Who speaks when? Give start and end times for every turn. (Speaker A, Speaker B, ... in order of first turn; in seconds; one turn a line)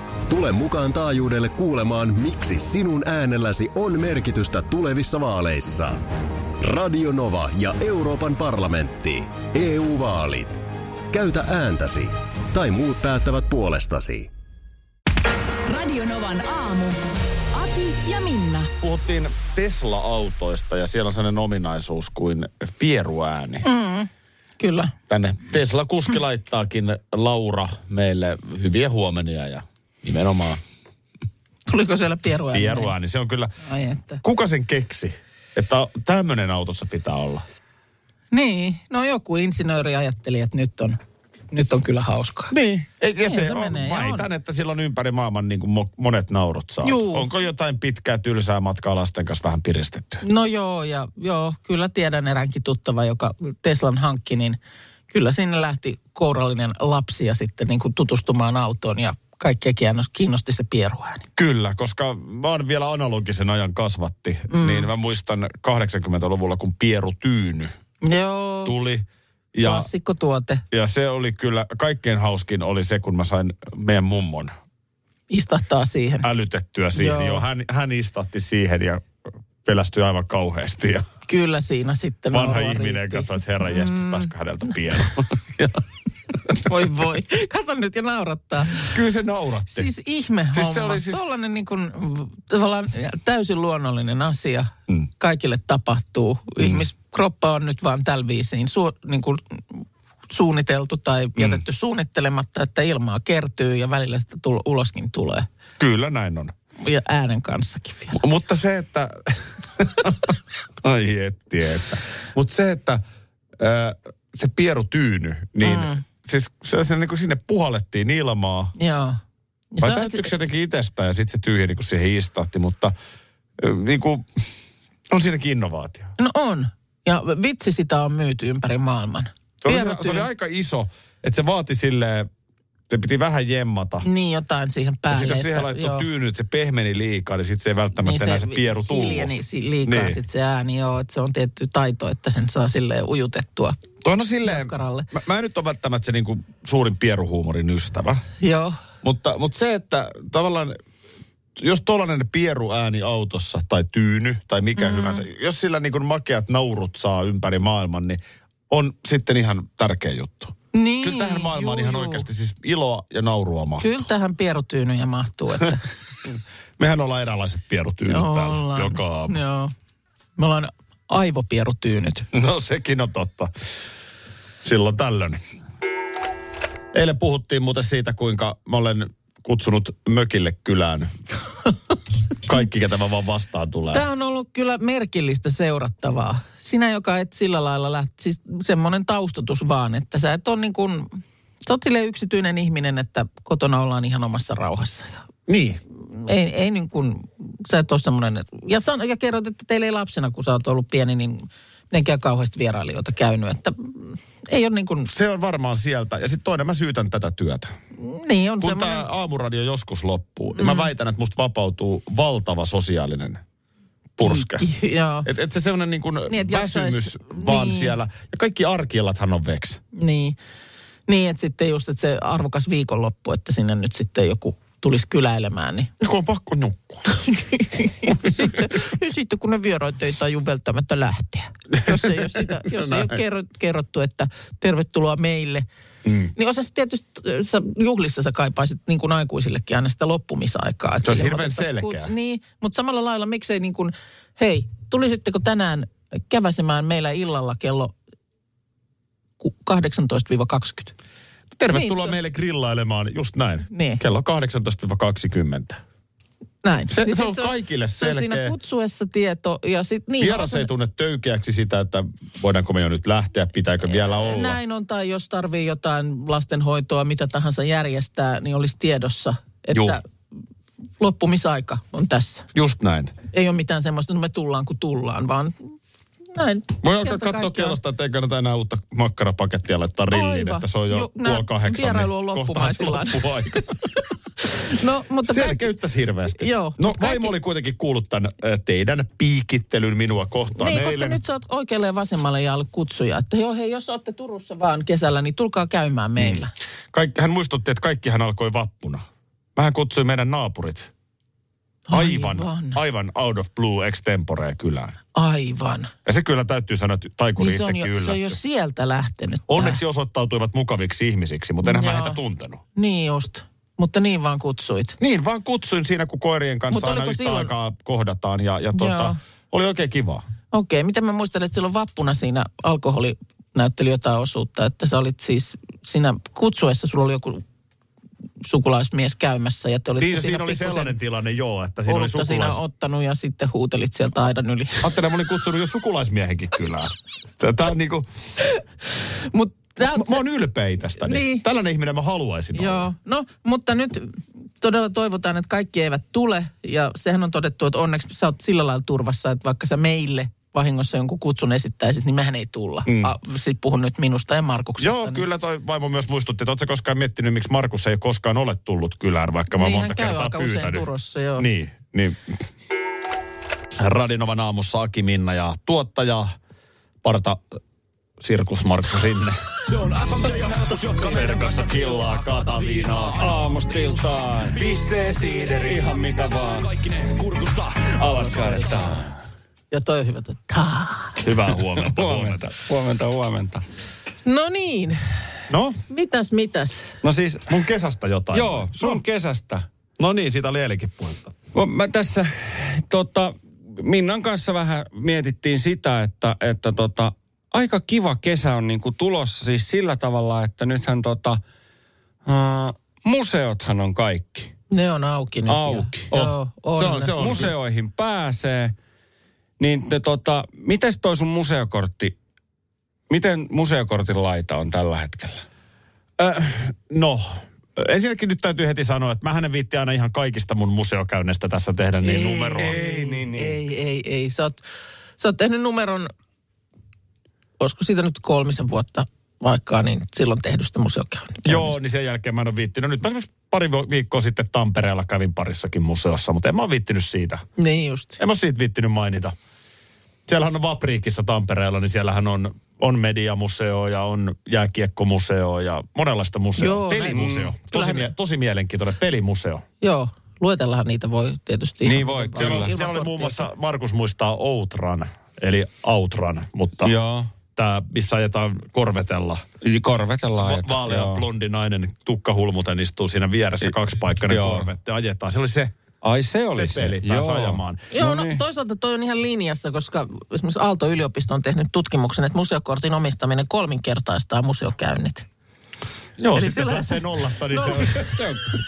Speaker A: 0.3-6.1
Speaker A: 6.6-14.3
Speaker B: 15.7-17.0
Speaker B: 17.5-18.7
Speaker C: 18.8-23.6
Speaker D: 23.6-24.9
Speaker C: 25.1-30.6
Speaker D: 31.7-32.9
Speaker C: 32.5-33.5
Speaker D: 33.6-34.2
Speaker C: 34.2-37.4
Speaker D: 38.3-41.0
Speaker D: 41.5-42.5
Speaker C: 42.5-50.2
Speaker D: 43.2-44.3
Speaker D: 46.8-47.3
Speaker D: 50.2-54.6
Speaker D: 55.1-61.3
Speaker C: 61.4-67.7
Speaker D: 64.5-64.9
Speaker D: 68.0-68.7
Speaker C: 68.6-69.9
Speaker D: 69.6-70.6
Speaker C: 70.7-74.5
Speaker D: 75.3-76.3
Speaker C: 76.2-79.1
Speaker D: 76.9-77.4
Speaker C: 79.6-81.0
Speaker D: 81.3-84.3
Speaker C: 82.3-85.8
Speaker D: 86.5-89.0
Speaker C: 88.8-89.9
Speaker D: 89.7-105.5
Speaker C: 90.5-91.2
Speaker C: 101.4-101.6
Speaker C: 105.8-106.5
Speaker D: 106.8-108.2
Speaker C: 108.1-113.0
Speaker C: 113.6-118.8
Speaker D: 115.6-116.0
Speaker D: 118.8-119.2
Speaker D: 119.7-120.3
Speaker C: 119.8-122.9
Speaker C: 123.6-124.5
Speaker C: 125.1-126.1
Speaker D: 126.2-130.3
Speaker C: 129.6-132.3
Speaker C: 132.9-134.0
Speaker D: 134.0-136.0
Speaker C: 135.1-139.3
Speaker D: 137.9-143.8
Speaker C: 139.8-140.2
Speaker C: 144.0-148.2
Speaker D: 144.4-145.1
Speaker D: 148.4-148.8
Speaker C: 149.0-150.8
Speaker C: 151.6-164.0
Speaker D: 154.8-155.2
Speaker D: 160.7-162.2
Speaker D: 163.8-165.9
Speaker C: 166.3-169.4
Speaker D: 168.1-169.7
Speaker D: 170.4-172.3
Speaker C: 172.3-173.5
Speaker C: 174.6-175.4
Speaker C: 176.9-181.1
Speaker C: 182.4-184.0
Speaker D: 183.9-195.2
Speaker C: 195.5-195.8
Speaker D: 196.1-205.1
Speaker C: 205.1-207.7
Speaker D: 208.0-209.1
Speaker C: 208.6-213.4
Speaker D: 210.6-210.9
Speaker C: 214.2-214.7
Speaker D: 214.2-215.3
Speaker C: 215.2-219.8
Speaker D: 216.3-217.9
Speaker D: 219.9-220.4
Speaker D: 221.1-225.9
Speaker C: 226.0-227.1
Speaker D: 227.1-235.7
Speaker C: 228.1-228.6
Speaker C: 231.7-233.2
Speaker C: 236.0-236.3
Speaker D: 236.3-247.9
Speaker C: 241.0-242.1
Speaker D: 249.4-250.9
Speaker C: 251.6-255.8
Speaker D: 251.7-252.2
Speaker D: 253.7-254.0
Speaker D: 256.6-260.7
Speaker C: 256.9-258.5
Speaker C: 260.2-264.6
Speaker D: 264.1-270.0
Speaker D: 271.0-272.4
Speaker C: 272.5-273.1
Speaker D: 273.3-275.7
Speaker D: 276.3-277.8
Speaker C: 276.8-283.7
Speaker D: 280.1-285.7
Speaker C: 285.2-291.2
Speaker D: 286.4-287.3
Speaker D: 290.6-296.5
Speaker C: 296.2-300.9
Speaker D: 301.9-302.8
Speaker C: 301.9-304.9
Speaker D: 305.1-305.9
Speaker C: 306.1-308.4
Speaker D: 307.4-309.8
Speaker C: 309.5-312.6
Speaker D: 311.6-312.2
Speaker D: 312.8-315.0
Speaker C: 315.0-320.2
Speaker D: 316.7-317.5
Speaker D: 318.8-319.2
Speaker D: 320.5-327.4
Speaker D: 328.4-330.9
Speaker C: 330.0-332.6
Speaker D: 331.9-334.9
Speaker C: 334.8-338.1
Speaker D: 339.0-340.2
Speaker C: 339.8-342.9
Speaker D: 341.0-341.4
Speaker D: 342.6-355.2
Speaker C: 352.9-353.1
Speaker C: 354.8-360.9
Speaker D: 359.5-361.5
Speaker C: 361.4-362.4
Speaker C: 363.8-366.3
Speaker C: 367.0-367.6
Speaker C: 368.2-369.4
Speaker E: 369.9-371.0
Speaker C: 370.7-373.4
Speaker E: 373.2-379.1
Speaker D: 378.1-378.8
Speaker D: 379.7-381.2
Speaker C: 381.2-382.6
Speaker E: 381.5-383.6
Speaker D: 384.2-385.1
Speaker C: 385.5-385.8
Speaker D: 385.9-386.9
Speaker E: 387.0-387.6
Speaker C: 387.5-389.0
Speaker E: 388.3-389.6
Speaker C: 390.0-391.3
Speaker E: 391.5-401.4
Speaker E: 402.2-404.5
Speaker D: 404.7-407.4
Speaker E: 405.5-406.1
Speaker C: 406.1-407.5
Speaker E: 407.2-408.8
Speaker E: 409.6-412.1
Speaker E: 413.1-415.4
Speaker C: 416.2-422.9
Speaker D: 422.0-424.6
Speaker E: 422.6-423.6
Speaker D: 425.2-426.1
Speaker D: 427.6-431.8
Speaker C: 431.4-437.4
Speaker D: 437.6-438.2
Speaker C: 438.2-439.3
Speaker C: 440.3-449.6
Speaker D: 446.6-448.1
Speaker E: 447.1-447.5
Speaker D: 449.8-453.5
Speaker E: 451.8-452.7
Speaker C: 452.4-456.9
Speaker E: 456.8-457.3
Speaker C: 457.6-459.4
Speaker E: 459.6-461.2
Speaker C: 460.4-465.7
Speaker E: 464.3-464.7
Speaker E: 466.0-468.4
Speaker C: 466.5-467.8
Speaker D: 467.9-475.2
Speaker C: 476.2-478.3
Speaker D: 476.3-478.2
Speaker E: 477.8-478.4